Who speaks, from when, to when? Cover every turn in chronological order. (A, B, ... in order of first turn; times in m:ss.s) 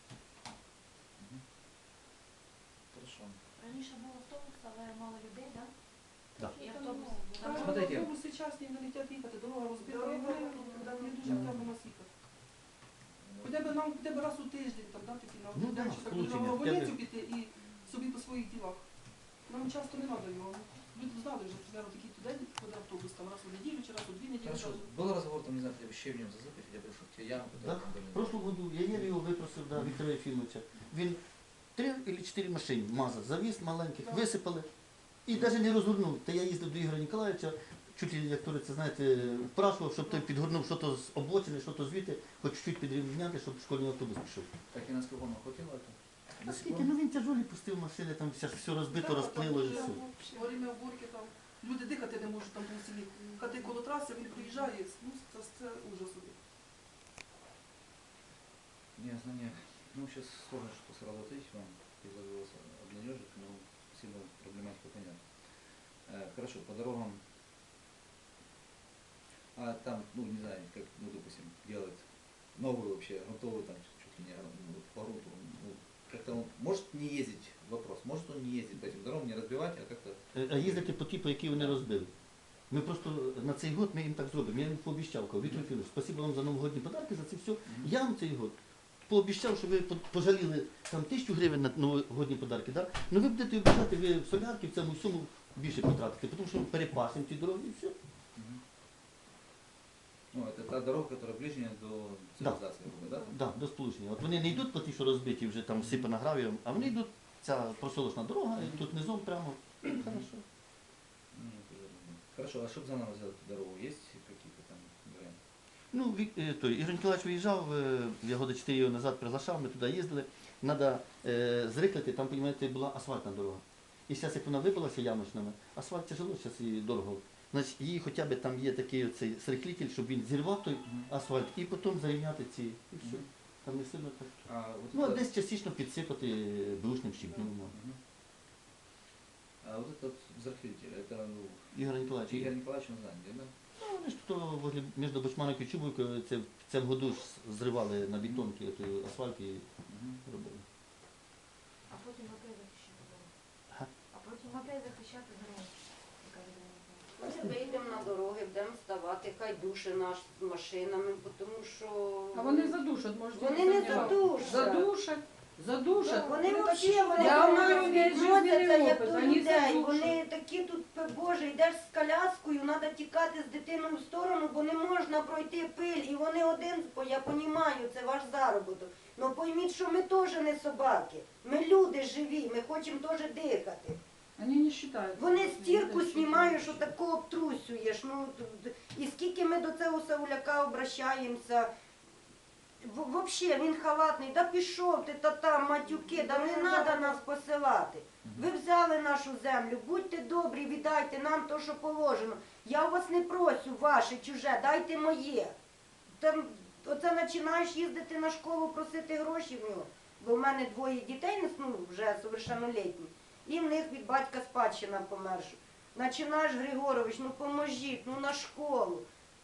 0:02.9-0:03.4 A
0:03.6-0:05.7 B
0:06.4-0:08.0 B
0:06.5-0:12.1 C
0:07.4-0:08.1 A
0:09.9-0:11.5 B
0:11.2-0:11.6 D
0:13.2-0:13.8 A
0:13.4-0:18.8 C
0:15.5-0:17.0 D
0:19.5-0:24.9 C
0:24.4-0:29.1 A
0:27.6-0:31.2 D
0:31.8-0:34.7 D
0:35.2-0:44.5 D
0:44.7-0:46.9 A
0:46.4-0:50.1 D
0:48.9-0:56.4 C
0:49.7-0:50.5 B
0:59.0-1:05.2 A
1:06.1-1:07.2 A
1:09.6-1:12.0 A
1:12.6-1:20.9 A
1:20.4-1:22.1 D
1:21.5-1:21.8 A
1:22.7-1:28.6 D
1:27.6-1:27.9 A
1:29.1-1:37.9 D
1:38.4-1:38.6 A
1:40.3-1:43.3 A
1:43.2-1:50.4 D
1:45.8-1:46.1 A
1:50.0-1:50.3 A
1:51.3-1:55.4 A
1:55.9-2:17.8 D
2:13.0-2:13.3 A
2:14.4-2:15.3 A
2:17.7-2:18.0 A
2:19.6-2:21.7 A
2:21.7-2:22.5 D
2:22.2-2:23.5 A
2:23.8-2:29.6 D
2:29.9-2:30.2 A
2:30.2-2:30.6 D
2:31.9-2:33.3 B
2:34.1-2:38.0 B
2:37.2-2:42.8 E
2:42.3-2:50.2 F
2:43.3-2:44.9 E
2:46.1-3:04.0 E
2:46.2-2:48.2 C
3:04.4-3:06.9 F
3:05.2-3:11.7 E
3:12.8-3:25.5 E
3:16.4-3:16.8 C
3:26.2-3:39.0 E